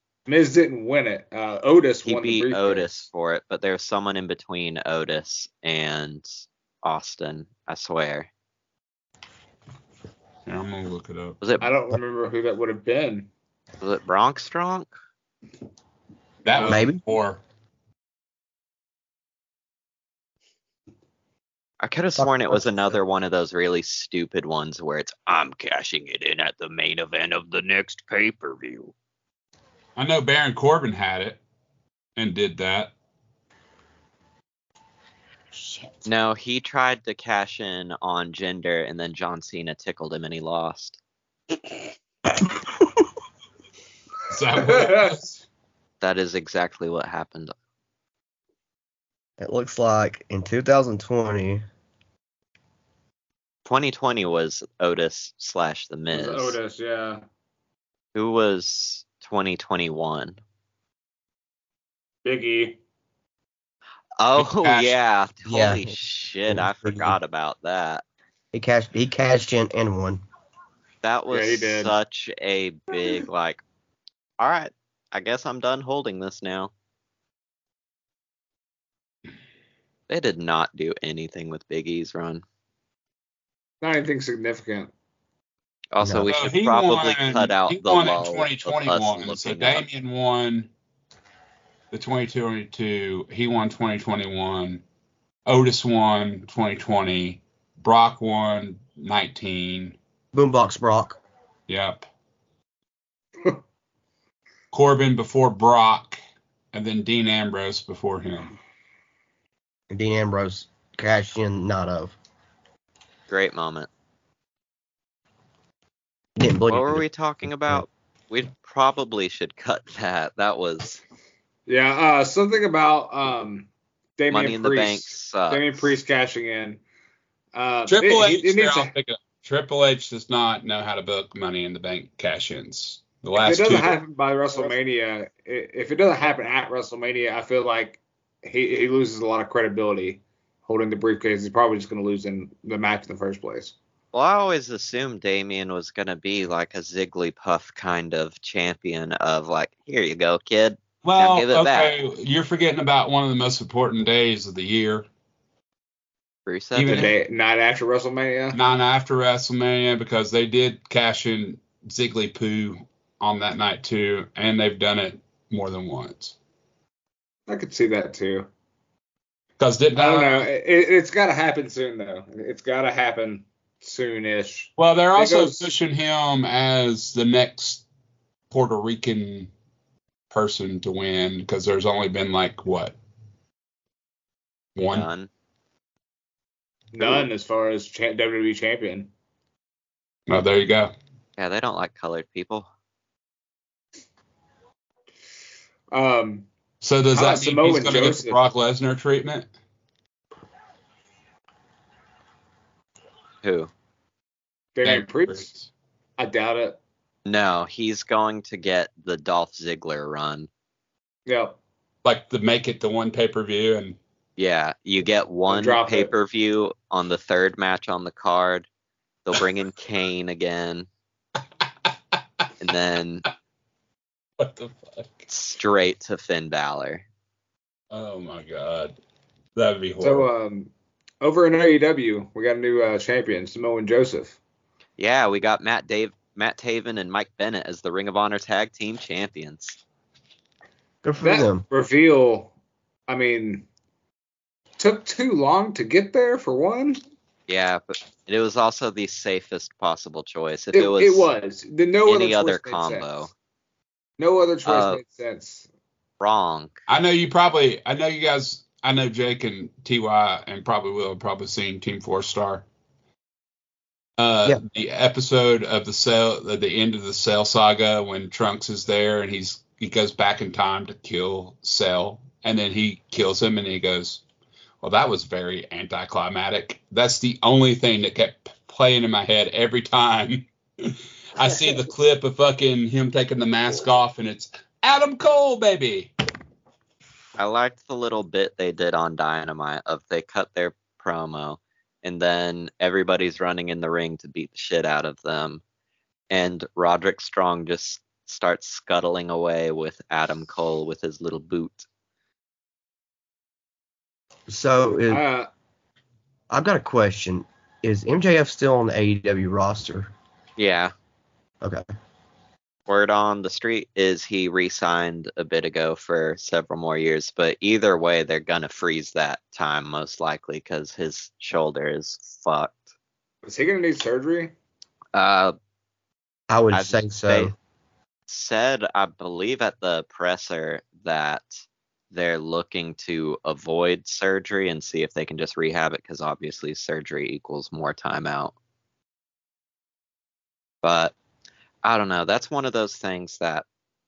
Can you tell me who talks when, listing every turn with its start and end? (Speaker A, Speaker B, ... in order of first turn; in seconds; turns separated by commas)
Speaker A: 0.3-2.9, Speaker B: 2.0-6.3, Speaker B: 6.8-8.3, Speaker C: 10.5-11.4, Speaker B: 11.4-11.7, Speaker A: 11.6-13.3, Speaker B: 13.8-14.9, Speaker C: 16.4-17.4, Speaker D: 16.6-17.0, Speaker B: 21.8-28.9, Speaker D: 22.2-23.0, Speaker C: 30.0-31.4, Speaker C: 32.2-32.9, Speaker B: 36.0-41.0, Speaker C: 44.3-45.4, Speaker A: 44.5-45.2, Speaker B: 46.0-47.5, Speaker D: 49.4-51.6, Speaker B: 53.6-56.6, Speaker A: 56.1-57.2, Speaker B: 58.1-60.4, Speaker A: 62.2-62.8, Speaker B: 64.2-68.0, Speaker C: 64.4-65.0, Speaker D: 65.5-66.0, Speaker D: 66.5-67.2, Speaker D: 68.5-70.2, Speaker B: 71.0-73.6, Speaker A: 71.3-71.9, Speaker B: 74.4-76.7, Speaker B: 80.1-82.4, Speaker A: 83.8-84.9, Speaker B: 85.9-89.8, Speaker D: 86.0-86.3, Speaker C: 86.3-90.7, Speaker C: 91.9-94.8, Speaker C: 95.5-100.0, Speaker D: 100.3-101.2, Speaker C: 101.7-102.1, Speaker C: 104.7-106.2, Speaker C: 106.7-108.5, Speaker D: 109.9-112.2, Speaker B: 113.3-113.9, Speaker D: 116.4-117.0, Speaker B: 116.7-121.0, Speaker A: 121.7-126.8, Speaker B: 124.3-125.8, Speaker A: 127.5-128.9, Speaker C: 127.9-134.0, Speaker A: 133.4-143.7, Speaker B: 144.1-152.0, Speaker C: 151.0-155.1, Speaker B: 156.5-157.1, Speaker C: 156.8-157.1, Speaker A: 156.9-158.6, Speaker C: 158.5-166.3, Speaker A: 167.5-168.5, Speaker C: 169.6-170.4, Speaker A: 169.9-175.7, Speaker C: 174.8-177.8, Speaker C: 178.5-179.5, Speaker C: 180.3-183.0, Speaker C: 184.8-185.1, Speaker B: 184.9-185.3, Speaker A: 186.9-189.1, Speaker C: 187.0-187.2, Speaker C: 190.3-190.9, Speaker B: 191.4-192.7, Speaker A: 195.9-196.5, Speaker C: 196.8-199.5, Speaker A: 197.1-198.4, Speaker B: 203.4-203.7, Speaker A: 204.8-205.5, Speaker C: 204.8-205.7, Speaker A: 206.2-206.8, Speaker B: 207.3-210.5, Speaker A: 211.3-211.6, Speaker C: 212.1-214.0, Speaker B: 214.4-218.7, Speaker A: 215.5-216.1, Speaker B: 219.3-220.9, Speaker B: 222.6-223.2, Speaker C: 224.4-225.3, Speaker B: 225.3-227.1, Speaker C: 227.9-228.9, Speaker C: 229.6-230.3, Speaker A: 230.0-234.4, Speaker B: 235.0-239.8, Speaker D: 241.0-241.7, Speaker A: 241.2-242.5, Speaker A: 243.1-243.7, Speaker A: 244.8-247.0, Speaker B: 247.5-251.3, Speaker A: 250.7-253.1, Speaker B: 252.1-253.3, Speaker A: 254.2-255.7, Speaker B: 254.7-255.0, Speaker B: 256.2-256.8, Speaker C: 256.9-262.7, Speaker C: 264.2-274.2, Speaker C: 274.8-286.1, Speaker B: 287.4-295.6, Speaker B: 296.3-301.9, Speaker D: 304.5-305.2, Speaker A: 305.1-305.5, Speaker D: 306.5-310.1, Speaker B: 310.6-310.9, Speaker B: 312.9-322.8, Speaker A: 323.4-324.5, Speaker B: 325.1-325.6, Speaker D: 326.5-327.5, Speaker B: 326.7-327.5, Speaker B: 328.3-338.5, Speaker B: 340.8-341.1, Speaker B: 341.8-343.6